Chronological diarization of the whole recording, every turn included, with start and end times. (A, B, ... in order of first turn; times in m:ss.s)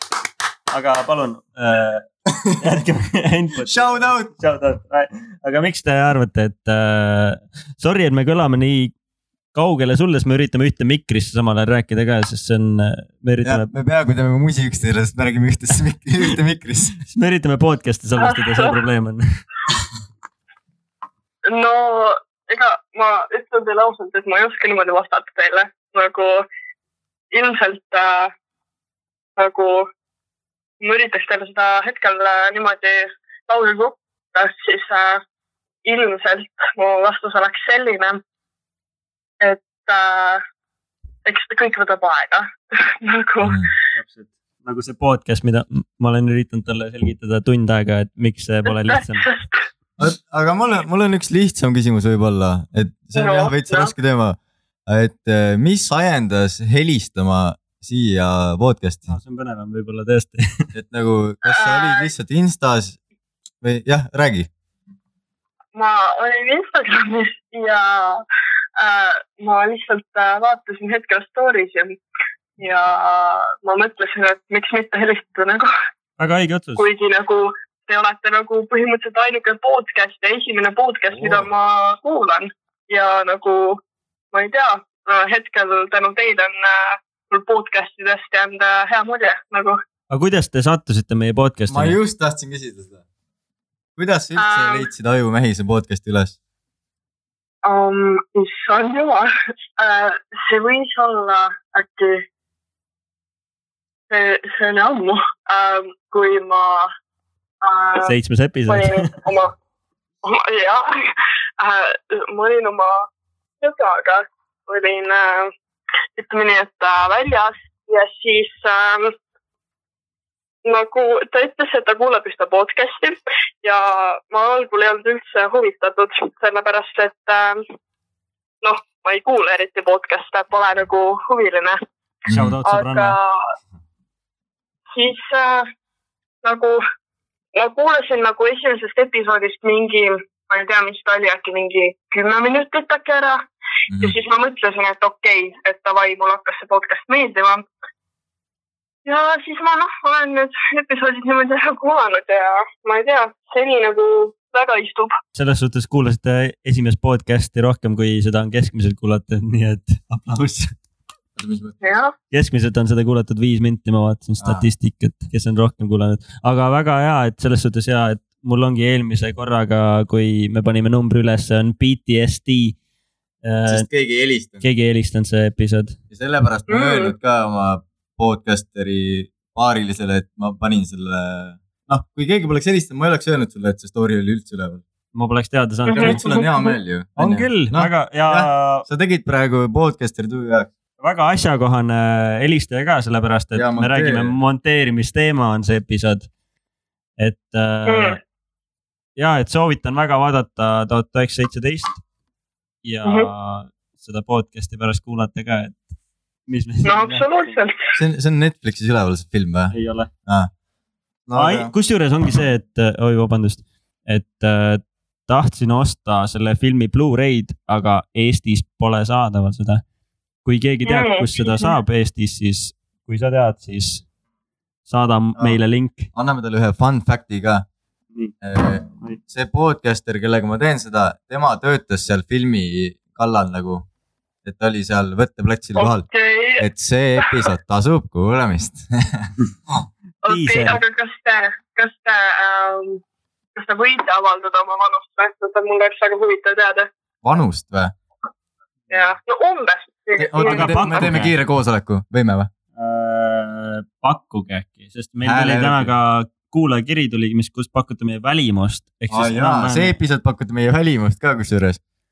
0:00.7-0:02.1 A
0:02.6-0:08.9 A
0:03.6-0:04.3 B
0:09.5-0:13.7 A
0:13.4-0:17.0 B
0:17.1-0:19.2 A
0:18.2-0:18.7 C
0:21.5-0:26.5 C
0:27.3-0:28.3 C
0:29.4-0:29.9 C
0:30.8-0:35.2 C
0:35.8-0:38.2 C
0:39.4-0:40.4 C
0:41.2-0:43.6 C
0:43.4-0:43.7 B
0:43.9-0:49.3 A
0:48.9-0:49.5 C
0:50.0-0:59.1 B
0:53.2-0:53.9 C
0:59.1-1:00.7 A
1:00.7-1:03.0 B
1:01.4-1:02.1 C
1:03.6-1:04.5 B
1:05.7-1:08.2 C
1:08.8-1:11.9 C
1:12.6-1:15.7 C
1:16.2-1:16.9 A
1:16.8-1:23.8 C
1:24.3-1:29.8 C
1:30.1-1:32.0 A
1:31.7-1:33.0 B
1:34.0-1:36.3 B
1:34.4-1:34.9 C
1:37.6-1:42.2 C
1:44.1-1:46.9 C
1:47.6-1:48.1 C
1:48.0-1:49.1 A
1:48.7-1:49.5 C
1:50.2-1:51.1 C
1:51.6-1:53.0 C
1:53.6-1:55.5 C
1:56.2-1:59.1 C
2:00.6-2:07.6 C
2:08.6-2:11.8 C
2:12.2-2:12.6 B
2:12.3-2:13.2 A
2:12.6-2:13.4 C
2:14.9-2:15.7 C
2:16.4-2:16.8 C
2:17.5-2:23.4 C
2:23.9-2:24.2 B
2:24.0-2:27.6 C
2:29.0-2:35.1 C
2:35.3-2:40.7 A
2:41.4-2:41.8 B
2:41.8-2:42.1 C
2:42.3-2:52.8 A
2:44.4-2:44.7 B
2:53.4-2:53.9 A
2:53.7-2:54.6 B
2:54.6-2:56.0 A
2:56.1-3:04.8 B
2:56.7-2:57.1 C
3:05.1-3:06.2 A
3:05.9-3:06.7 C
3:05.9-3:10.7 B
3:07.2-3:08.8 A
3:11.0-3:16.3 A
3:13.5-3:14.3 B
3:17.2-3:18.2 A
3:17.9-3:18.2 C
3:19.2-3:22.0 A
3:22.8-3:25.8 A
3:26.5-3:27.6 A
3:26.8-3:27.8 C
3:27.9-3:29.7 B
3:29.7-3:30.1 A
3:31.3-3:31.7 B
3:31.3-3:39.8 A
3:40.4-3:44.0 A
3:40.8-3:41.7 C
3:44.9-3:46.1 A
3:46.1-3:47.6 B
3:48.4-3:53.8 B
3:54.4-3:56.1 B
3:55.8-3:56.6 C
3:56.6-3:59.3 B
4:00.2-4:00.8 A
4:00.2-4:03.0 C
4:03.6-4:06.9 C
4:07.2-4:07.9 B
4:08.9-4:11.1 C
4:10.2-4:12.5 B
4:10.4-4:11.3 A
4:12.8-4:20.0 A
4:15.2-4:15.9 B
4:19.1-4:21.8 B